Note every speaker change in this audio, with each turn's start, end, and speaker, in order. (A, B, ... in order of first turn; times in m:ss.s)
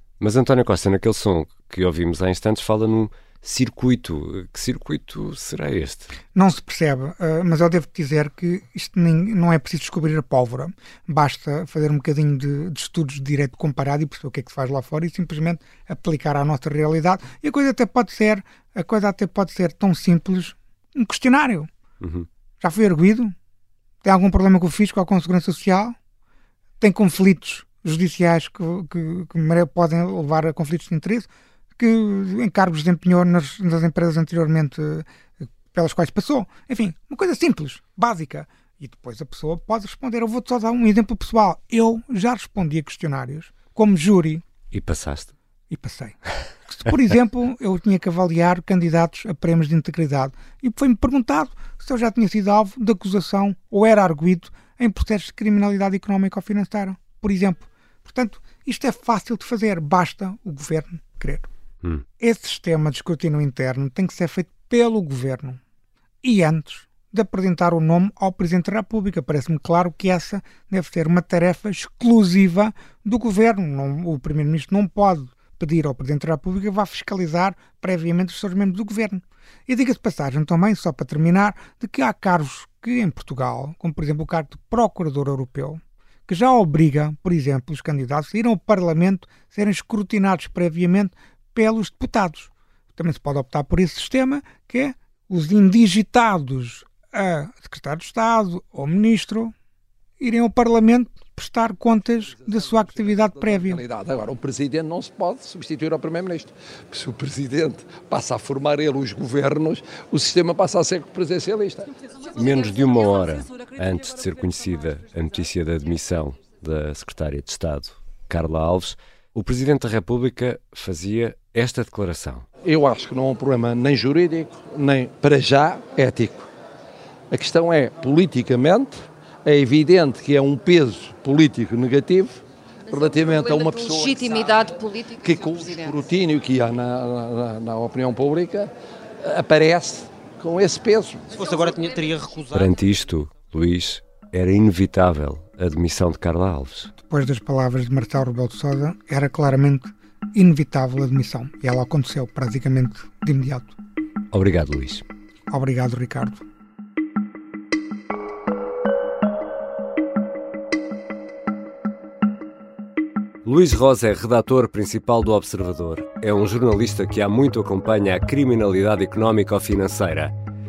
0:00.2-0:06.1 A
0:06.3-0:21.7 B
0:22.0-0:22.3 A
0:22.6-0:23.3 B
0:24.0-0:26.0 B
0:26.8-0:35.0 B
0:35.7-0:44.4 B
0:44.7-0:45.3 A
0:45.7-1:01.5 B
1:02.2-1:05.6 B
1:06.2-1:39.5 B
1:40.2-1:43.8 B
1:42.3-1:51.9 C
1:52.3-2:02.5 A
2:02.6-2:06.5 C
2:07.3-2:21.4 C
2:13.2-2:16.0 D
2:21.4-2:22.7 D
2:22.5-2:26.9 A
2:27.0-2:33.8 B
2:34.3-2:35.0 A
2:35.5-2:36.4 B
2:43.4-2:50.3 A